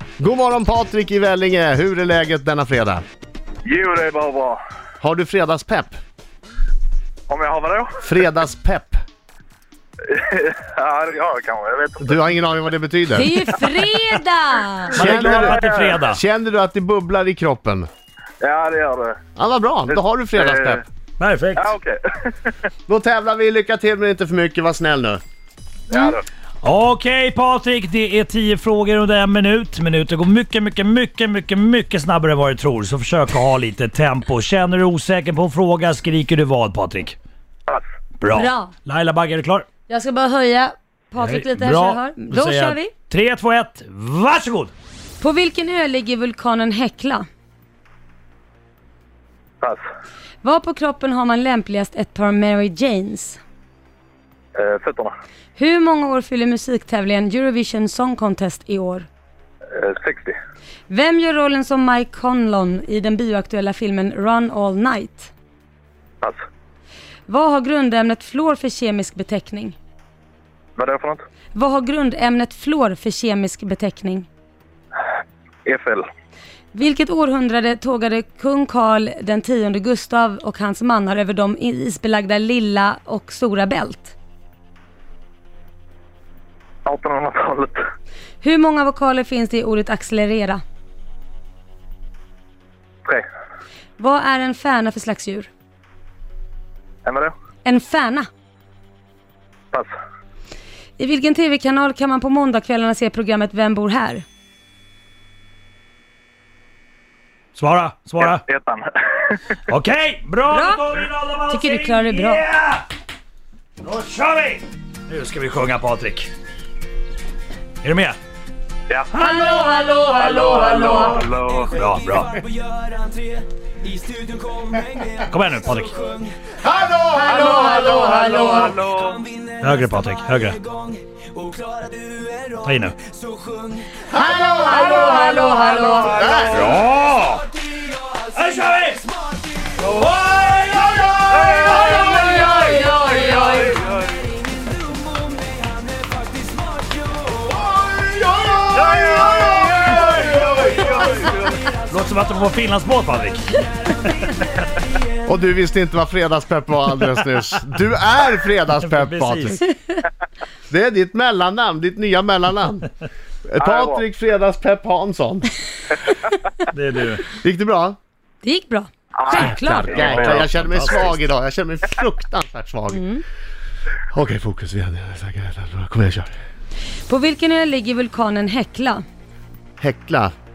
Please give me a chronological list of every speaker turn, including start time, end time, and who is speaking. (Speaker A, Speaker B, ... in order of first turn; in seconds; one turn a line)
Speaker A: 0.2-3.0
Speaker B: 3.6-4.6
Speaker A: 5.0-6.0
Speaker B: 7.3-7.9
Speaker A: 8.0-9.0
Speaker B: 10.0-12.2
Speaker A: 12.0-13.5
Speaker C: 13.1-14.9
Speaker B: 14.9-16.0
Speaker D: 14.9-16.2
Speaker A: 14.9-17.9
Speaker B: 18.4-19.2
Speaker A: 19.4-20.8
Speaker B: 19.9-20.8
Speaker D: 21.2-21.7
Speaker B: 21.5-22.6
Speaker A: 22.9-25.2
Speaker B: 25.9-26.2
Speaker D: 26.6-37.1
Speaker D: 38.2-39.6
Speaker C: 38.3-38.7
Speaker C: 39.9-42.9
Speaker D: 41.2-44.7
Speaker C: 45.2-47.3
Speaker C: 50.4-53.4
Speaker B: 54.5-55.1
Speaker C: 55.5-59.1
Speaker B: 59.7-60.4
Speaker C: 60.9-65.3
Speaker C: 67.3-69.8
Speaker B: 70.8-71.2
Speaker C: 71.5-74.3
Speaker B: 75.7-76.1
Speaker C: 76.7-84.1
Speaker B: 86.8-87.8
Speaker C: 88.4-90.6
Speaker C: 94.0-95.5
Speaker B: 97.0-97.3
Speaker C: 97.6-98.3
Speaker C: 101.0-104.2
Speaker D: 107.5-108.4
Speaker B: 108.2-109.6
Speaker D: 109.7-112.8
Speaker C: 110.5-110.9
Speaker C: 111.5-112.4
Speaker D: 113.8-116.3
Speaker D: 117.8-118.2
Speaker B: 118.9-119.2
Speaker C: 119.1-121.2
Speaker B: 120.1-121.8
Speaker D: 121.7-122.4
Speaker D: 125.2-126.2
Speaker A: 126.6-128.6
Speaker C: 127.2-128.7
Speaker B: 127.5-129.2
Speaker D: 129.6-130.6
Speaker D: 132.5-133.0
Speaker A: 134.1-136.8
Speaker C: 134.1-136.6
Speaker D: 136.4-139.1
Speaker D: 139.7-142.9
Speaker B: 141.3-142.2
Speaker C: 142.1-143.8
Speaker A: 142.3-142.7
Speaker B: 142.9-144.1
Speaker A: 147.5-150.9
Speaker B: 148.8-149.9
Speaker D: 149.9-150.5
Speaker B: 150.6-151.6
Speaker D: 151.8-154.5
Speaker A: 155.2-159.6
Speaker D: 158.8-159.6
Speaker A: 160.7-162.9
Speaker A: 163.5-165.5
Speaker B: 163.6-164.0
Speaker D: 166.7-167.3
Speaker A: 167.3-168.0
Speaker C: 168.4-170.0
Speaker B: 169.1-170.5
Speaker A: 169.3-173.0
Speaker D: 169.9-171.3
Speaker C: 172.9-173.2
Speaker A: 174.1-176.3
Speaker C: 177.1-179.0
Speaker A: 179.8-180.3